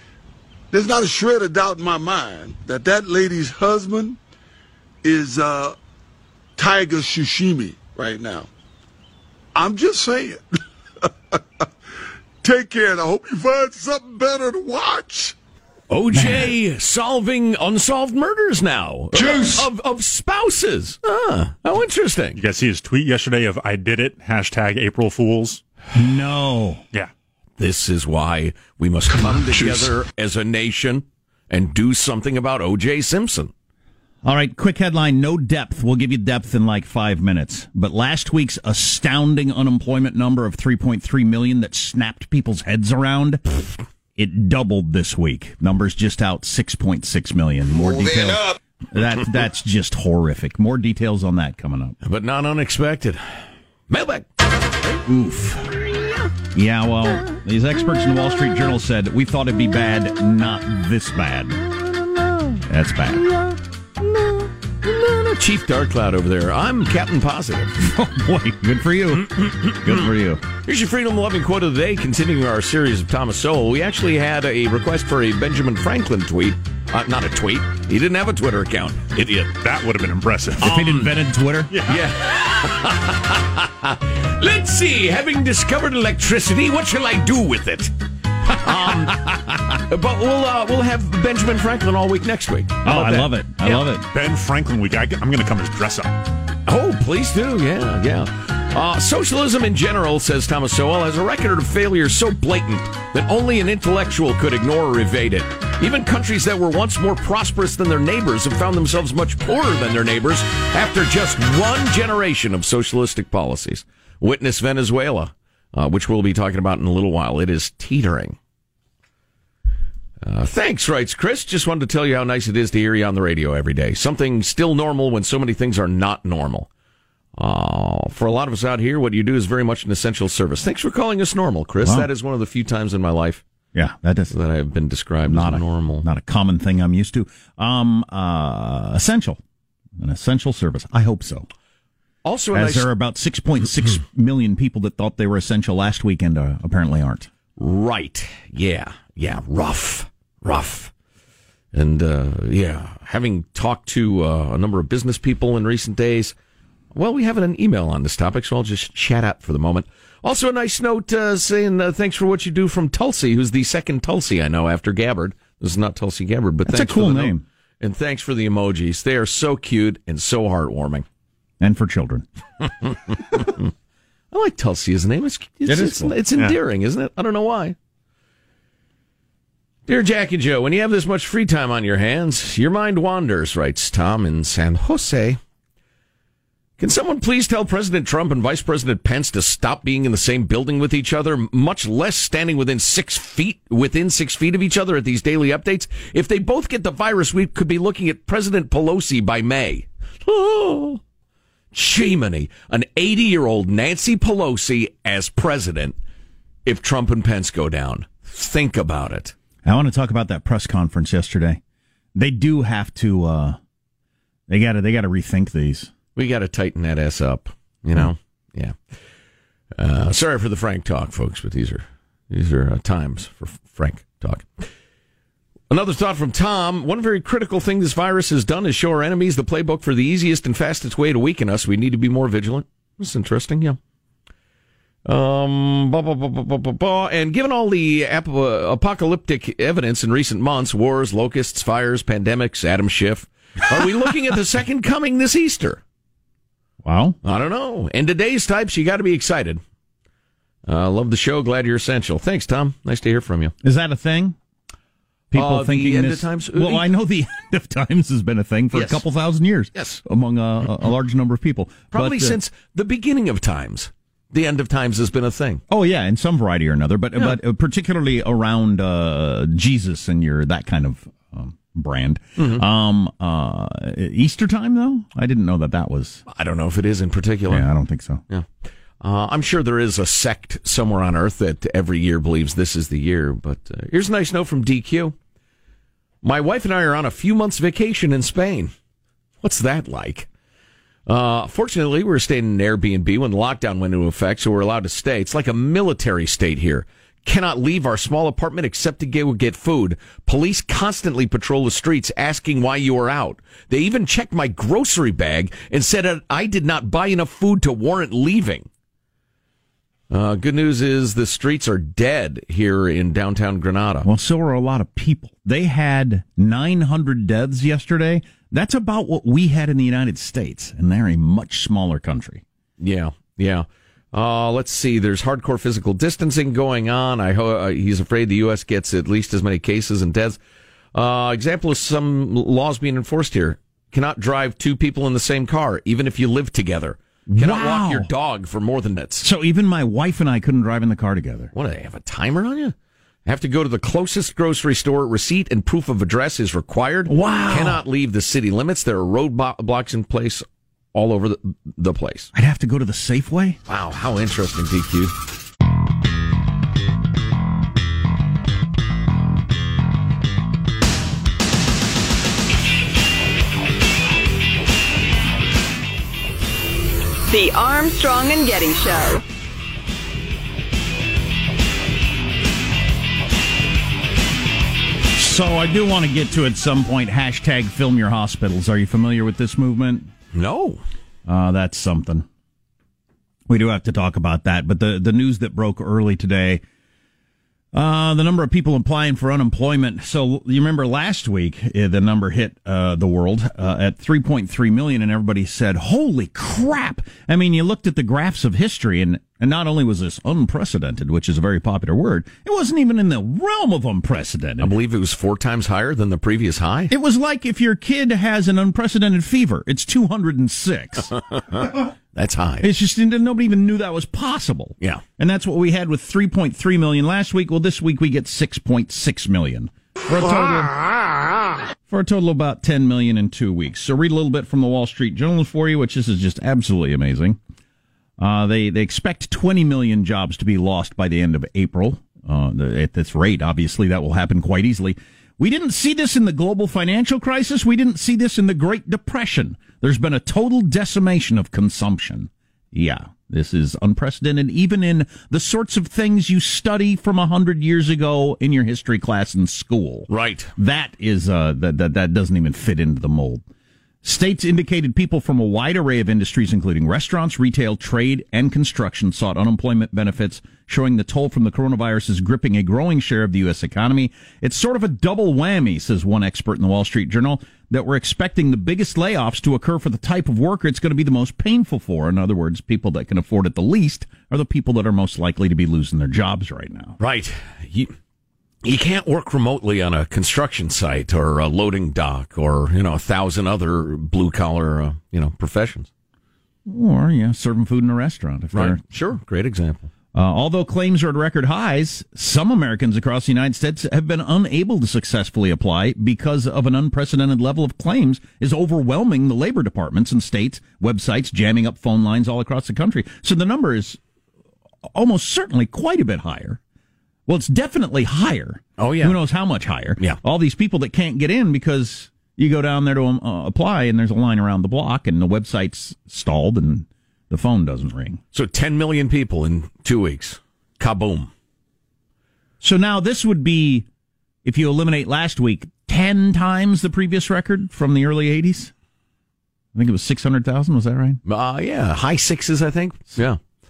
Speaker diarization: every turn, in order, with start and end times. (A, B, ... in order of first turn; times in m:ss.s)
0:00.7-0:04.2 A
0:05.0-0:05.8 A
0:06.6-0:08.5 A
0:09.5-0:10.4 A
0:12.4-0:15.3 A
0:15.9-0:22.4 B
0:16.1-0:16.5 C
0:22.3-0:25.6 D
0:25.9-0:26.8 C
0:27.6-0:33.5 B
0:34.2-0:43.4 C
0:44.2-0:52.0 C
0:52.0-0:54.2 B
0:55.0-0:55.8 C
0:56.5-1:01.6 C
1:02.6-1:03.3 C
1:04.8-1:07.8 B
1:07.8-1:10.4 C
1:09.2-1:10.1 B
1:10.6-1:19.6 B
1:19.6-1:20.9 D
1:20.6-1:21.8 C
1:20.6-1:21.1 B
1:21.7-1:22.0 D
1:21.8-1:27.9 B
1:28.5-1:33.8 B
1:32.8-1:34.0 C
1:34.1-1:36.2 D
1:36.6-1:58.4 B
2:00.2-2:06.7 B
2:07.4-2:13.4 B
2:11.8-2:12.1 C
2:13.7-2:14.3 C
2:14.3-2:16.0 B
2:15.2-2:19.4 C
2:20.0-2:21.5 C
2:22.2-2:22.9 B
2:22.5-2:27.3 C
2:27.6-2:30.9 B
2:31.7-2:36.3 B
2:36.9-2:51.0 B
2:46.6-2:47.4 C
2:51.6-2:52.2 C
2:53.1-2:53.7 B
2:54.3-2:57.8 B
2:55.6-2:56.2 C
2:59.9-3:05.4 B
3:06.8-3:21.0 B
3:21.7-3:26.0 B
3:26.6-3:29.3 B
3:29.6-3:31.6 C
3:32.1-3:33.6 C
3:34.5-3:35.9 C
3:36.2-3:38.8 B
3:39.8-3:44.7 B
3:45.7-3:53.8 B
3:55.0-4:05.8 B
4:06.8-4:07.2 C
4:07.2-4:09.6 B
4:10.6-4:13.5 B
4:13.6-4:14.4 C
4:15.3-4:22.4 C
4:15.3-4:16.9 B
4:18.7-4:19.0 B
4:19.7-4:20.0 B
4:21.9-4:25.6 B
4:25.7-4:36.2 C
4:32.4-4:32.6 B
4:36.3-4:37.7 B
4:37.5-4:38.2 C
4:39.0-4:45.1 B
4:46.2-4:48.7 B
4:49.4-4:50.3 B
4:51.1-5:08.7 B
5:10.1-5:14.1 B
5:14.0-5:22.4 C
5:22.8-5:30.4 B
5:30.9-5:39.2 B
5:37.3-5:38.1 C
5:39.2-5:41.5 C
5:41.5-5:42.7 B
5:43.2-5:52.3 B
5:47.1-5:47.8 C
5:52.3-5:53.6 C
5:53.7-5:55.1 B
6:07.3-6:09.2 E
6:15.1-6:20.1 C
6:20.3-6:20.8 B
6:21.2-6:22.2 C
6:23.5-6:26.6 C
6:27.7-6:44.7 C
6:44.6-6:46.9 B
6:46.9-6:51.1 C
6:51.3-6:52.7 B
6:52.6-7:00.8 C
7:01.9-7:07.4 C
7:08.2-7:33.4 C
7:30.1-7:30.5 B
7:34.0-7:57.0 C
7:57.0-7:57.9 B
7:58.6-8:05.9 B
8:06.6-8:08.8 C
8:08.5-8:09.9 B
8:10.1-8:24.0 C
8:24.8-8:26.6 C
8:27.3-8:38.2 C
8:28.8-8:29.2 B
8:38.3-8:41.3 B
8:42.6-8:43.9 C
8:44.4-8:48.7 C
8:49.7-8:51.2 C
8:51.2-8:53.4 B